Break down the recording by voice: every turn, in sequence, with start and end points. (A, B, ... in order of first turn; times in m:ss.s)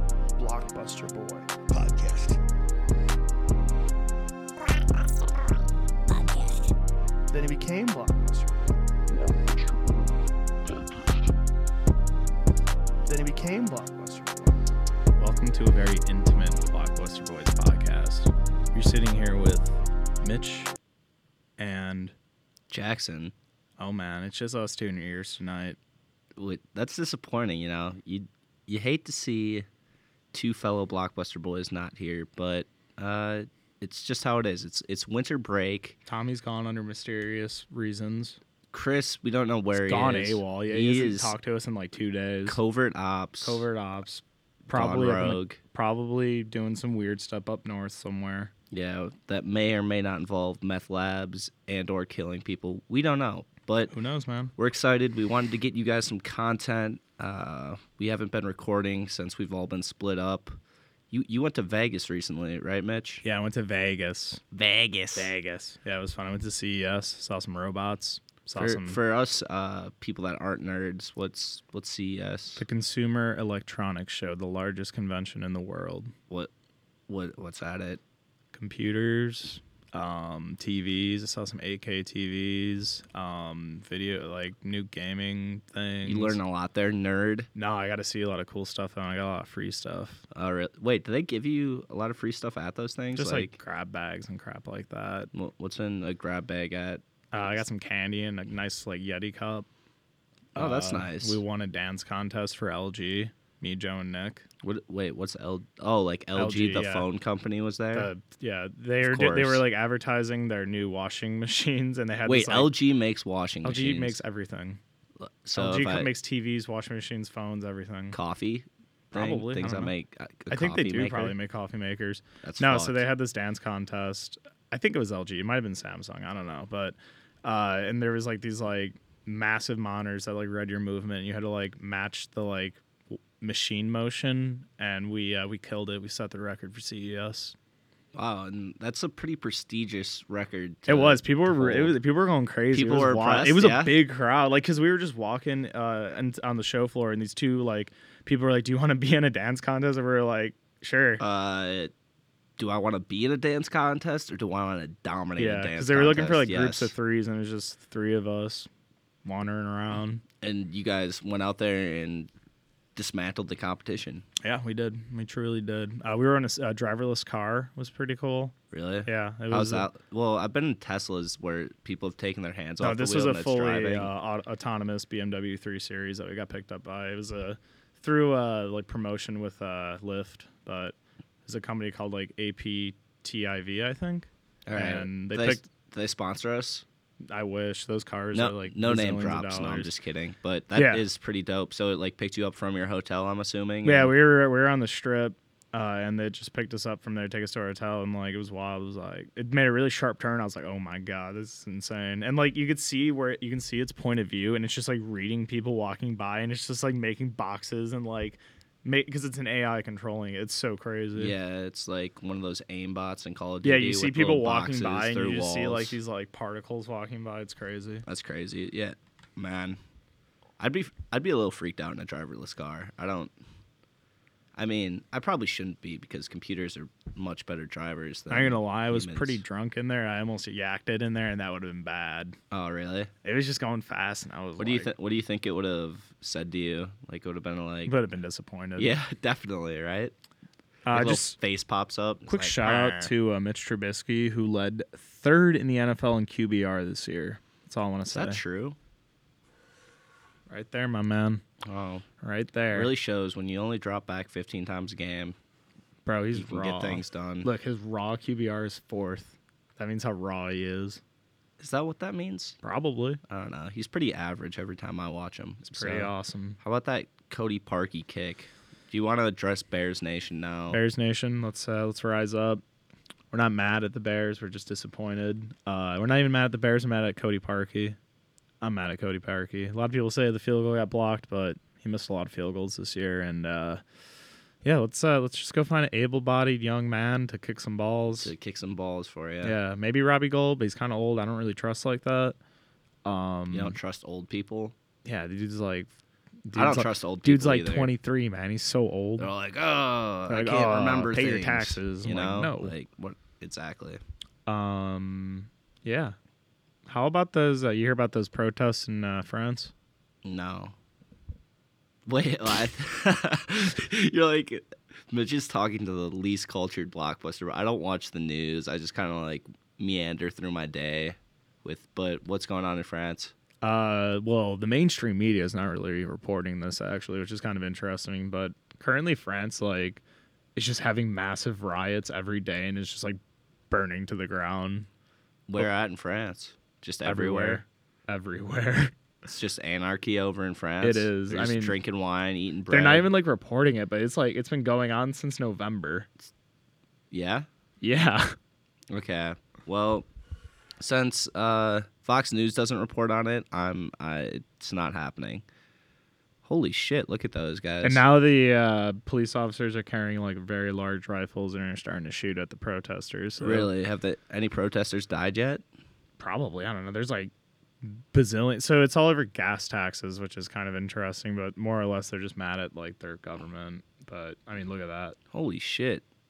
0:00.4-0:02.4 A
0:06.1-0:06.7 A
0:07.3-0:09.5 A
0:13.0-0:14.6 A
0:15.2-0:20.7 B
0:21.6-0:22.1 B
0:22.7-0:23.3 C
0:23.8-0:25.8 B
0:26.4-0:29.6 C
0:30.3-0:36.0 C
0:36.0-0:38.4 B
0:38.7-0:41.4 C
0:39.8-0:42.6 B
0:42.4-0:43.6 C
0:43.4-0:48.5 B
0:44.7-0:45.6 C
0:48.7-0:53.9 C
0:53.9-0:54.5 B
0:54.6-1:00.6 C
1:01.1-1:03.2 C
1:03.2-1:04.4 B
1:04.5-1:05.3 C
1:05.1-1:09.0 B
1:08.6-1:12.6 C
1:12.6-1:16.1 B
1:17.1-1:18.0 C
1:18.5-1:26.4 B
1:26.0-1:27.5 C
1:27.5-1:30.2 B
1:30.3-1:33.5 C
1:33.2-1:35.3 B
1:35.3-1:37.0 C
1:37.3-1:39.7 B
1:40.5-1:44.4 B
1:40.5-1:41.4 C
1:44.6-1:48.1 C
1:46.3-1:47.0 B
1:47.9-1:52.7 B
1:49.0-1:49.6 C
1:52.2-1:54.2 C
1:53.6-1:54.8 B
1:55.2-1:56.1 C
1:55.6-1:58.2 B
1:58.1-2:01.4 C
1:59.1-1:59.9 B
2:00.5-2:17.5 B
2:02.4-2:03.0 C
2:18.1-2:21.9 C
2:20.9-2:31.2 B
2:22.7-2:24.0 C
2:31.2-2:31.9 C
2:32.6-2:36.9 C
2:35.4-2:38.7 B
2:39.2-2:40.2 B
2:40.4-2:42.3 C
2:42.9-2:44.2 C
2:44.4-2:48.5 B
2:48.7-2:54.1 C
2:49.0-2:49.9 B
2:52.8-3:05.6 B
3:04.7-3:06.8 C
3:07.3-3:09.9 B
3:08.3-3:14.1 C
3:10.7-3:11.0 B
3:13.8-3:31.3 B
3:31.2-3:36.0 C
3:33.6-3:38.0 B
3:38.0-3:39.8 C
3:40.6-3:43.3 C
3:44.6-3:49.4 C
3:48.3-3:52.4 B
3:52.5-3:53.1 C
3:53.2-3:54.9 B
3:54.6-3:57.9 C
3:57.8-3:59.0 B
3:58.8-4:00.1 C
4:00.8-4:01.4 B
4:00.9-4:03.1 C
4:02.3-4:08.4 B
4:08.1-4:08.8 C
4:10.5-4:11.4 B
4:11.6-4:12.0 C
4:12.2-4:12.9 B
4:12.7-4:15.4 C
4:16.0-4:21.0 B
4:16.3-4:17.5 C
4:21.6-4:22.6 C
4:22.6-4:23.2 B
4:23.3-4:30.8 C
4:25.7-4:26.6 B
4:30.7-4:32.6 B
4:33.3-4:38.0 B
4:38.6-4:43.8 B
4:44.6-4:48.3 B
4:48.2-4:49.6 C
4:49.4-4:52.4 B
4:53.0-4:53.8 B
4:53.5-4:54.7 C
4:55.0-4:55.9 B
4:56.4-4:59.3 B
4:56.5-4:57.9 C
4:59.2-5:04.0 C
5:00.3-5:02.7 B
5:04.5-5:06.2 B
5:06.8-5:09.7 B
5:10.2-5:10.7 C
5:12.0-5:23.3 C
5:23.6-5:30.0 B
5:30.6-5:33.2 B
5:33.7-5:34.9 B
5:35.5-5:37.6 C
5:37.0-5:38.9 B
5:39.2-5:43.1 C
5:40.8-5:41.8 B
5:42.7-5:46.1 B
5:47.1-5:47.5 C
5:47.8-5:48.4 B
5:48.9-5:50.0 C
5:50.8-5:55.4 C
5:56.4-5:58.0 C
5:57.8-6:03.7 B
6:03.4-6:05.6 C
6:06.2-6:07.3 B
6:07.8-6:15.2 B
6:15.3-6:16.0 C